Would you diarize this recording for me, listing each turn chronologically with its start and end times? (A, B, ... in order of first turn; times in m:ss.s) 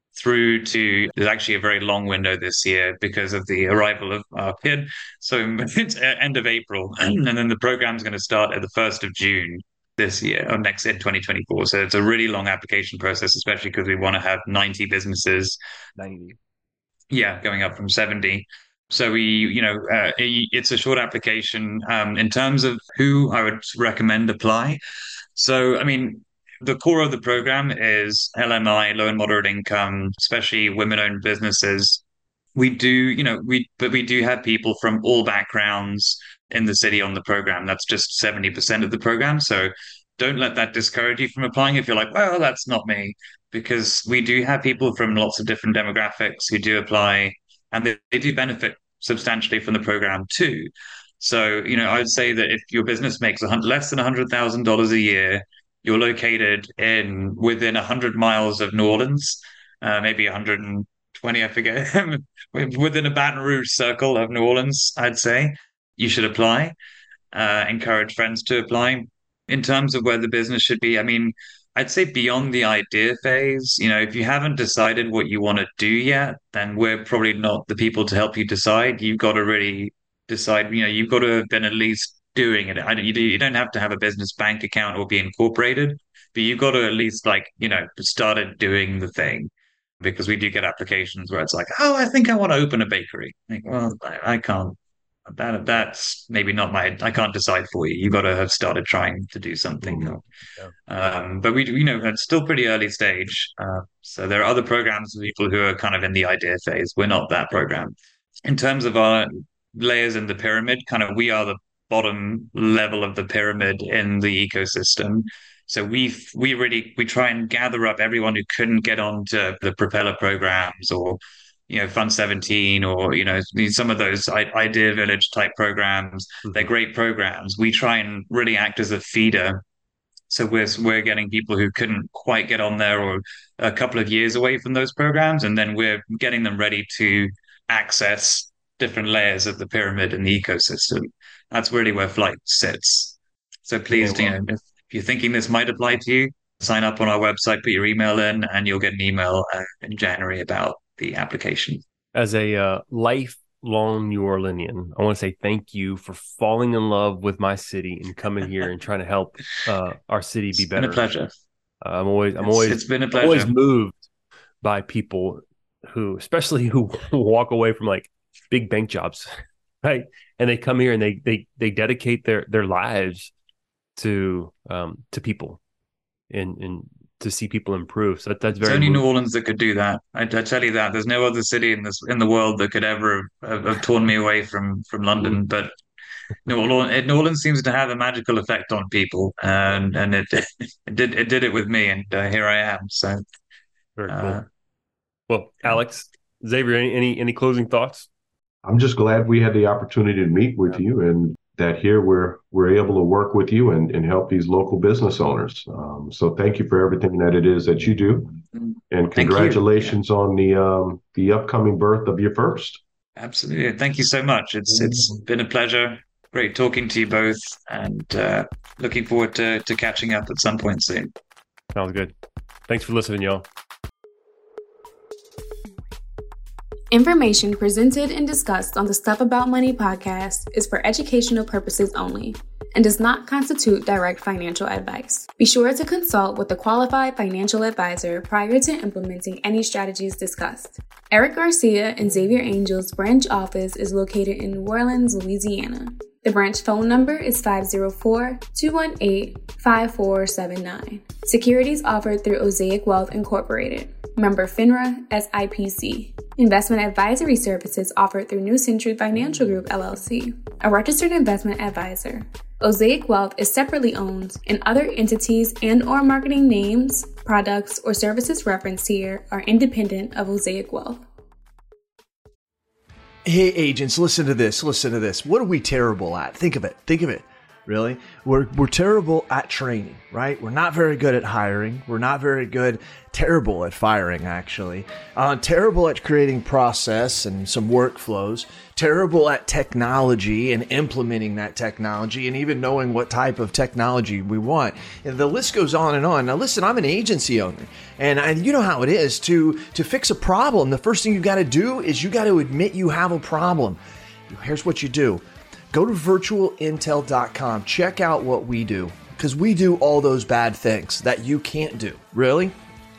0:00.2-0:15.6 A
0:16.0-0:16.4 B
0:17.1-0:24.8 A
0:25.4-0:32.0 A
0:32.6-1:06.8 A
1:07.3-1:29.5 A
1:30.0-1:34.8 A
1:35.3-1:40.2 A
1:39.9-1:40.7 B
1:40.9-1:48.0 A
1:48.5-2:09.6 A
2:10.3-2:31.8 A
2:23.9-2:24.3 B
2:32.2-2:41.0 B
2:40.7-2:41.3 A
2:41.8-2:44.1 B
2:42.4-2:43.5 A
2:44.6-2:49.3 B
2:49.8-2:53.3 B
2:54.0-2:55.6 B
2:56.3-2:59.0 B
2:58.6-3:05.7 A
3:06.5-3:13.2 A
3:14.0-3:14.4 B
3:14.1-3:14.4 A
3:15.3-3:18.1 B
3:18.6-3:28.4 C
3:28.6-3:30.0 A
3:28.9-3:32.8 C
3:33.2-3:41.1 A
3:41.8-3:42.1 B
3:42.7-3:43.5 B
3:46.9-4:31.0 D
4:33.2-5:12.5 E